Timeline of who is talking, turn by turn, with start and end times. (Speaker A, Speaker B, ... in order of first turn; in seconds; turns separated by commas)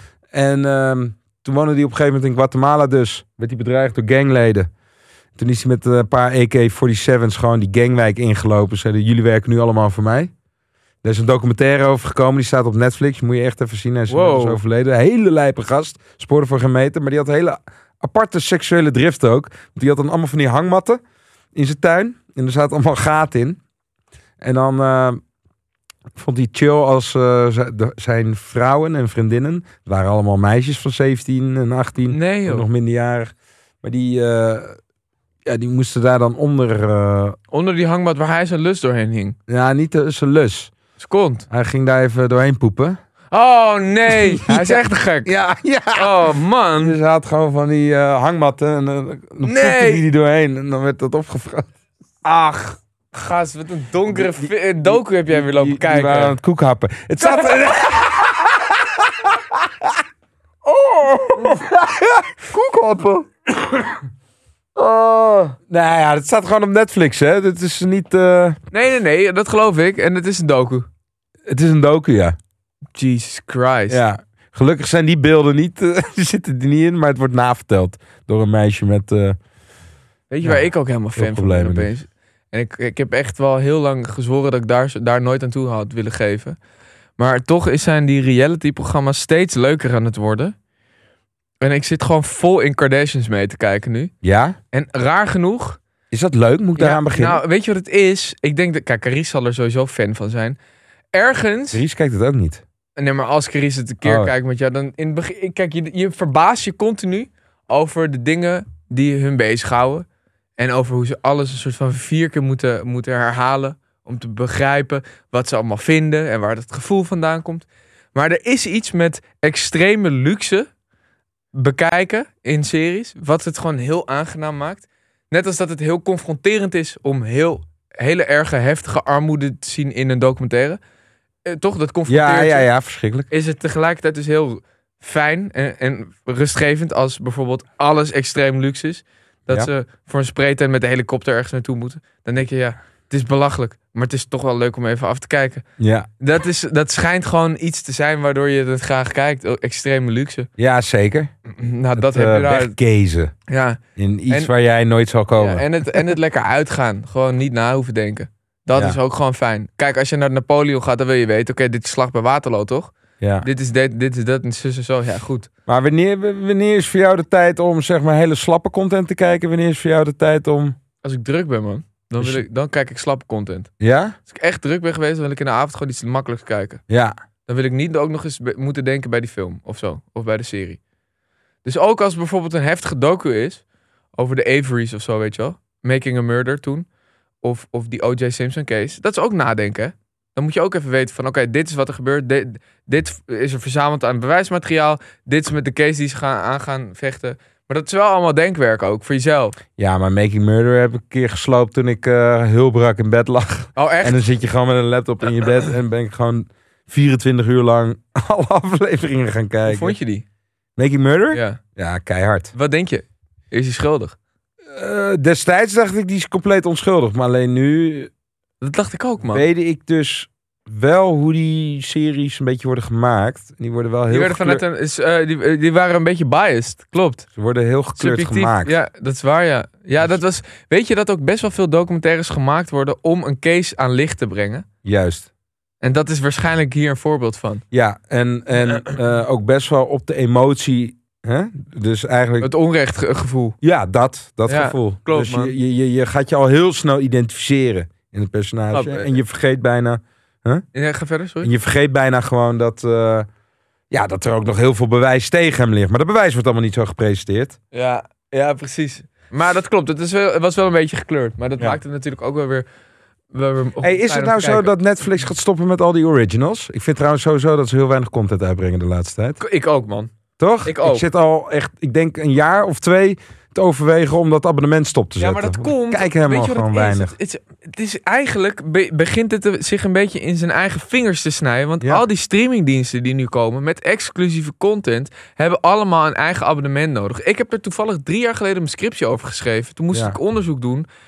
Speaker A: 0.3-4.7, Speaker A: 5.4-10.3, Speaker A: 11.0-21.0, Speaker B: 14.1-14.6, Speaker A: 21.5-23.6, Speaker A: 24.4-25.2, Speaker A: 26.1-34.8, Speaker B: 32.1-32.7, Speaker A: 35.5-37.4, Speaker B: 37.5-39.4, Speaker A: 39.5-40.7, Speaker B: 41.0-41.5, Speaker A: 41.5-43.0, Speaker B: 43.3-45.3, Speaker A: 44.1-46.3, Speaker B: 45.9-47.0, Speaker A: 46.8-51.7, Speaker B: 49.4-50.0, Speaker A: 52.2-52.6, Speaker B: 52.3-56.4, Speaker A: 54.1-60.0, Speaker B: 57.2-57.6, Speaker B: 60.7-61.6, Speaker A: 61.3-64.0, Speaker A: 64.8-68.6, Speaker B: 68.7-70.9, Speaker A: 71.5-72.4, Speaker B: 73.0-74.0, Speaker A: 73.9-79.4, Speaker B: 80.3-86.6, Speaker A: 80.4-81.9, Speaker B: 87.2-90.5, Speaker B: 91.6-94.1, Speaker A: 94.2-94.6, Speaker B: 94.7-95.8, Speaker A: 96.1-97.4, Speaker B: 96.8-100.6, Speaker B: 101.1-101.8, Speaker A: 101.7-102.6, Speaker B: 103.0-110.0, Speaker A: 104.0-104.3, Speaker B: 110.6-120.7, Speaker B: 121.5-130.8, Speaker B: 131.4-132.7, Speaker A: 132.1-133.3, Speaker B: 133.3-145.7, Speaker A: 145.8-146.1, Speaker B: 146.2-150.5, Speaker A: 150.6-151.3, Speaker B: 151.5-152.8, Speaker A: 152.0-153.3, Speaker B: 153.5-154.5, Speaker A: 154.0-155.7, Speaker B: 155.4-165.5, Speaker A: 163.2-163.5, Speaker A: 165.7-170.8, Speaker B: 171.0-173.7, Speaker A: 173.8-174.2, Speaker B: 174.3-176.8, Speaker A: 176.9-177.1, Speaker B: 177.5-180.8, Speaker B: 181.6-183.6, Speaker B: 184.2-186.9, Speaker B: 187.4-199.6, Speaker A: 199.8-210.0, Speaker B: 203.8-204.3, Speaker B: 209.7-210.2, Speaker A: 210.8-212.5, Speaker B: 211.3-211.6, Speaker B: 212.5-214.2, Speaker A: 214.7-218.1, Speaker B: 218.6-219.4, Speaker A: 219.2-224.6, Speaker B: 224.1-227.3, Speaker A: 227.4-228.8, Speaker B: 228.0-234.7, Speaker A: 234.8-235.3, Speaker B: 235.8-237.6, Speaker A: 237.7-242.5, Speaker B: 242.4-243.6, Speaker A: 243.6-250.7, Speaker B: 244.5-245.5, Speaker B: 248.7-249.2, Speaker B: 250.7-251.5, Speaker A: 251.4-253.3, Speaker A: 253.9-257.6, Speaker B: 257.7-262.6, Speaker B: 263.3-264.7, Speaker A: 263.8-269.4, Speaker B: 269.4-270.1, Speaker A: 270.4-277.1, Speaker B: 270.6-271.1, Speaker B: 275.2-290.9